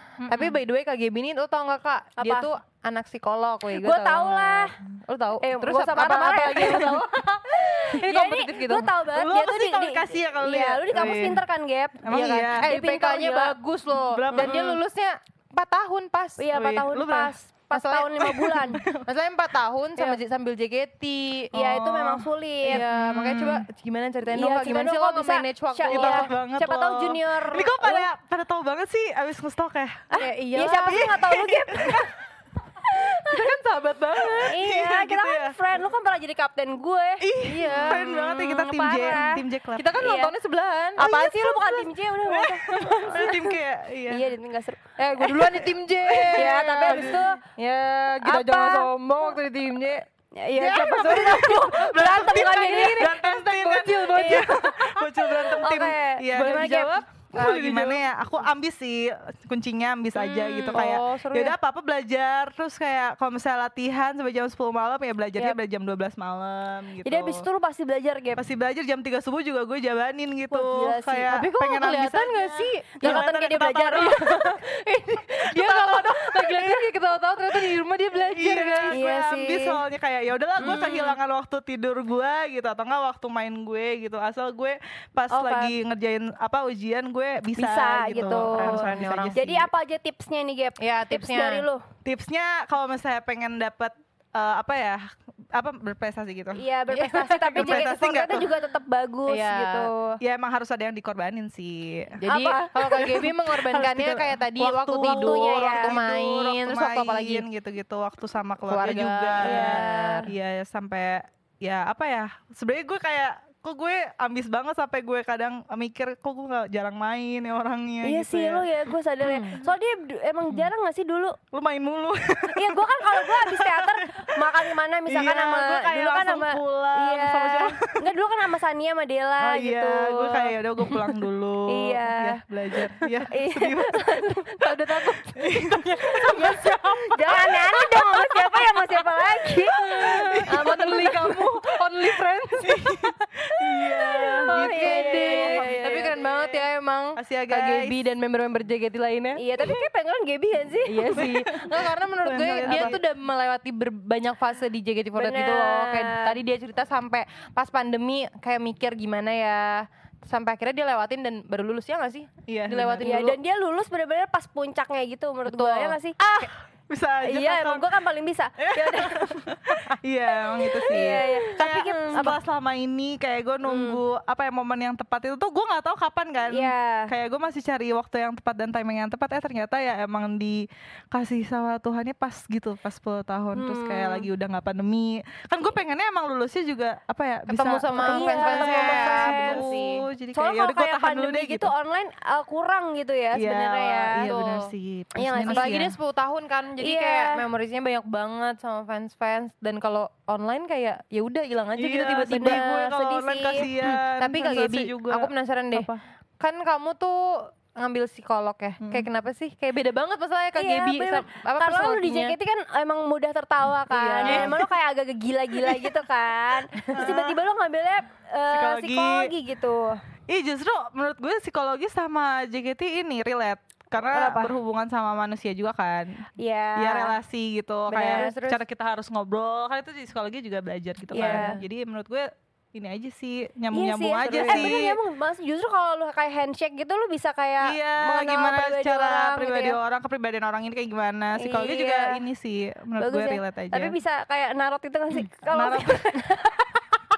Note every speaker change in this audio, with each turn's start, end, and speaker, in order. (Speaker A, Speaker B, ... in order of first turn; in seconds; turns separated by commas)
Speaker A: 0.2-0.6, Speaker B: 0.2-8.9, Speaker C: 2.2-2.5, Speaker C: 3.7-4.8, Speaker C: 5.4-13.5, Speaker A: 9.1-11.4, Speaker A: 12.0-12.7, Speaker B: 12.3-16.8, Speaker A: 14.1-14.7, Speaker C: 14.3-14.8, Speaker C: 16.4-18.8, Speaker A: 16.6-17.3, Speaker B: 17.7-26.3, Speaker A: 18.2-19.1, Speaker C: 21.5-22.8, Speaker A: 22.7-23.6, Speaker C: 24.3-28.1, Speaker A: 25.9-30.1, Speaker C: 30.1-32.1, Speaker B: 30.2-31.1, Speaker A: 30.8-32.1, Speaker C: 32.8-33.5, Speaker B: 33.1-34.6, Speaker A: 34.3-35.5, Speaker C: 34.4-39.4, Speaker A: 37.2-39.9, Speaker B: 37.4-38.1, Speaker B: 39.8-41.1, Speaker C: 40.0-40.3, Speaker C: 41.0-43.6, Speaker A: 41.0-44.2, Speaker C: 44.1-45.7, Speaker B: 45.0-50.0, Speaker A: 46.1-47.2, Speaker C: 46.3-47.4, Speaker C: 48.2-49.3, Speaker C: 50.3-53.2, Speaker A: 50.6-67.5, Speaker B: 50.7-54.8, Speaker C: 54.0-54.6, Speaker C: 55.2-57.0, Speaker B: 56.3-58.0, Speaker B: 60.2-61.5, Speaker C: 67.0-68.4, Speaker A: 68.3-72.5, Speaker C: 70.5-71.3, Speaker B: 71.2-73.2, Speaker C: 72.5-74.4, Speaker A: 73.0-74.4, Speaker B: 74.0-79.0, Speaker A: 75.5-76.8, Speaker A: 78.3-89.7, Speaker C: 78.9-79.8, Speaker B: 80.6-81.0, Speaker C: 80.6-81.1, Speaker C: 85.3-85.7, Speaker C: 87.5-91.8, Speaker B: 88.4-89.4, Speaker B: 90.8-91.7, Speaker A: 92.0-95.0, Speaker A: 95.5-96.6, Speaker C: 96.5-100.2, Speaker B: 96.9-97.9, Speaker A: 97.5-98.5, Speaker B: 99.3-99.9, Speaker A: 100.2-102.2, Speaker B: 102.2-107.4, Speaker C: 102.3-103.3, Speaker A: 103.0-118.7, Speaker C: 105.0-105.9, Speaker B: 108.7-110.2, Speaker C: 109.4-110.2, Speaker C: 118.0-121.4, Speaker B: 119.2-119.5, Speaker A: 121.5-128.0, Speaker C: 122.5-130.5, Speaker A: 129.4-134.1, Speaker C: 131.7-132.4, Speaker C: 133.3-135.2, Speaker B: 134.6-136.8, Speaker A: 135.3-138.6, Speaker C: 136.1-141.7, Speaker A: 139.5-140.8, Speaker B: 139.9-143.0, Speaker A: 142.6-146.6, Speaker C: 143.9-146.2, Speaker B: 144.4-149.4, Speaker A: 147.1-148.0, Speaker C: 149.3-151.3, Speaker B: 150.8-163.4, Speaker A: 151.1-153.0, Speaker C: 152.6-153.0, Speaker C: 155.2-156.4, Speaker A: 162.5-163.1, Speaker C: 163.0-166.5, Speaker B: 165.4-165.9, Speaker A: 166.2-167.9, Speaker C: 167.2-169.5, Speaker A: 168.6-191.7, Speaker C: 170.5-172.4, Speaker B: 171.6-172.3, Speaker C: 173.6-174.0, Speaker C: 176.5-177.1, Speaker C: 183.5-184.3, Speaker B: 187.5-189.7, Speaker C: 187.9-195.8, Speaker A: 193.3-195.9, Speaker B: 195.4-202.6, Speaker C: 196.8-197.4, Speaker A: 201.8-206.0, Speaker C: 202.3-203.7, Speaker B: 203.8-212.3, Speaker A: 208.8-209.1, Speaker C: 210.6-220.0, Speaker B: 213.9-214.6, Speaker A: 214.2-214.7, Speaker A: 216.9-217.4, Speaker A: 218.5-219.3, Speaker A: 220.3-226.2, Speaker C: 224.0-224.5, Speaker C: 226.4-227.2, Speaker A: 226.8-235.0, Speaker C: 227.9-228.6, Speaker C: 231.1-231.6, Speaker B: 231.2-231.6, Speaker C: 233.7-239.8, Speaker B: 234.3-234.8, Speaker A: 237.6-243.9, Speaker C: 241.3-242.2, Speaker C: 243.0-246.7, Speaker A: 245.5-246.0